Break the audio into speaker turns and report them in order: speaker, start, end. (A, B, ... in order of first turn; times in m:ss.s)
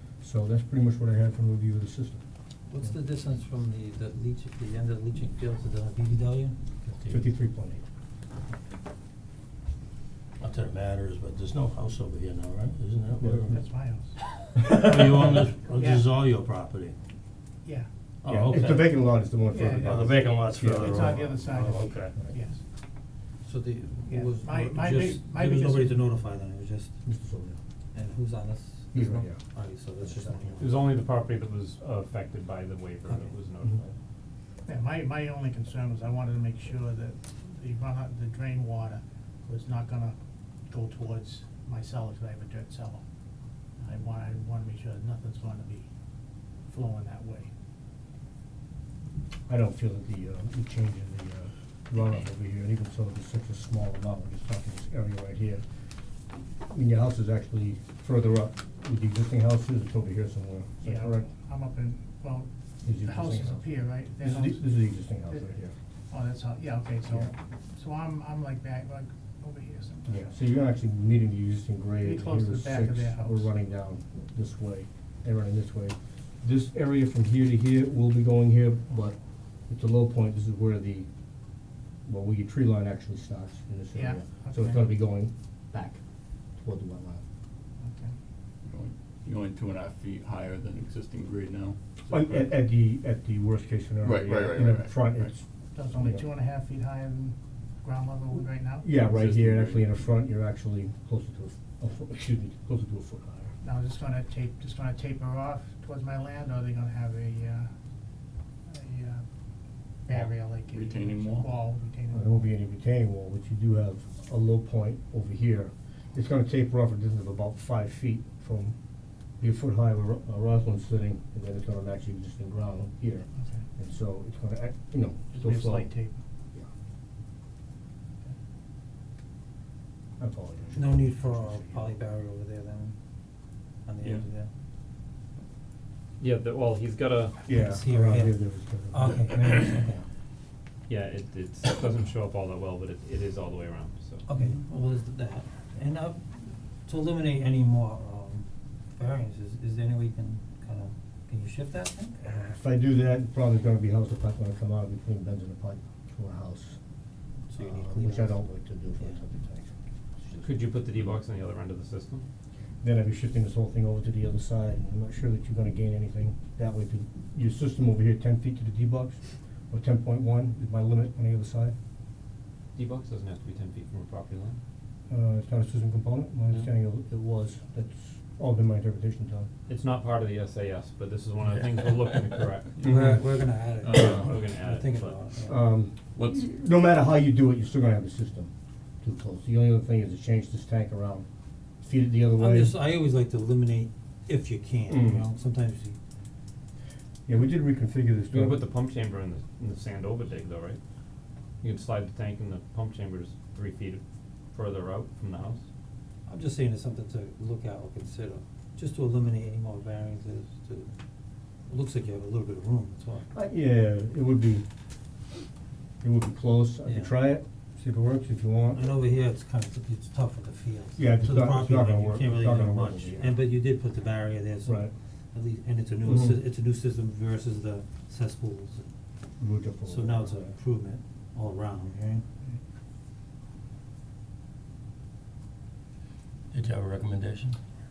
0:00.2-0:02.2 A
0:02.7-0:06.9 B
0:07.1-0:07.8 A
0:10.4-0:13.5 C
0:10.4-0:12.2 B
0:13.2-0:13.5 A
0:13.5-0:14.2 D
0:14.6-0:16.7 B
0:14.8-0:16.9 C
0:15.8-0:16.0 D
0:18.2-0:19.0 C
0:18.3-0:21.1 A
0:19.5-0:22.6 D
0:19.8-0:22.1 B
0:19.9-0:22.1 C
0:23.4-0:26.9 B
0:24.1-0:26.0 D
0:27.0-0:27.6 A
0:27.9-0:30.8 B
0:28.9-0:29.4 A
0:30.0-0:30.7 A
0:30.6-0:33.9 E
0:34.6-0:40.2 D
0:40.7-0:43.0 D
0:43.8-0:45.9 D
0:46.7-0:47.5 D
0:49.5-0:55.6 A
0:56.7-1:01.3 A
1:00.8-1:02.5 D
1:02.8-1:03.6 A
1:03.0-1:04.7 D
1:04.2-1:05.7 A
1:06.1-1:10.1 D
1:10.1-1:19.2 A
1:12.0-1:13.5 D
1:19.7-1:21.1 A
1:22.0-1:26.0 A
1:23.9-1:24.9 D
1:26.6-1:27.2 A
1:27.8-1:28.1 D
1:28.6-1:31.8 F
1:32.1-1:36.2 A
1:34.0-1:35.3 F
1:35.7-1:38.9 D
1:38.8-1:43.5 A
1:39.0-1:39.9 F
1:43.6-1:47.7 D
1:48.7-1:49.2 D
1:50.1-1:52.5 D
1:50.1-1:51.5 F
1:52.1-1:58.8 A
1:59.4-2:05.9 A
2:05.3-2:06.2 D
2:10.2-2:11.9 A
2:10.7-2:13.0 B
2:13.8-2:14.5 B
2:16.2-2:17.4 E
2:17.5-2:19.3 A
2:17.5-2:20.0 B
2:20.9-2:24.2 E
2:24.3-2:32.2 B
2:32.2-2:36.8 A
2:37.5-2:38.4 B
2:37.6-2:39.7 A
2:40.4-2:42.2 E
2:42.8-2:51.7 A
2:52.7-2:54.6 E
2:55.1-2:59.5 A
2:59.7-3:02.8 E
3:02.8-3:05.6 B
3:02.8-3:04.5 F
3:03.9-3:05.2 E
3:05.4-3:08.5 A
3:06.2-3:06.5 F
3:09.0-3:11.2 A
3:11.8-3:12.8 A
3:12.3-3:16.0 B
3:14.9-3:15.3 A
3:17.3-3:18.6 A
3:18.3-3:20.8 E
3:21.6-3:24.0 E
3:24.5-3:25.6 E
3:26.3-3:30.9 B
3:31.7-3:33.3 B
3:33.3-3:34.6 A
3:36.0-3:38.8 A
3:36.8-3:37.1 B
3:38.7-3:48.8 B
3:41.0-3:43.4 A
3:44.6-3:44.9 A
3:46.0-3:46.4 A
3:49.4-3:50.5 A
3:49.8-3:52.2 B
3:56.5-3:57.2 C
3:56.5-3:57.6 B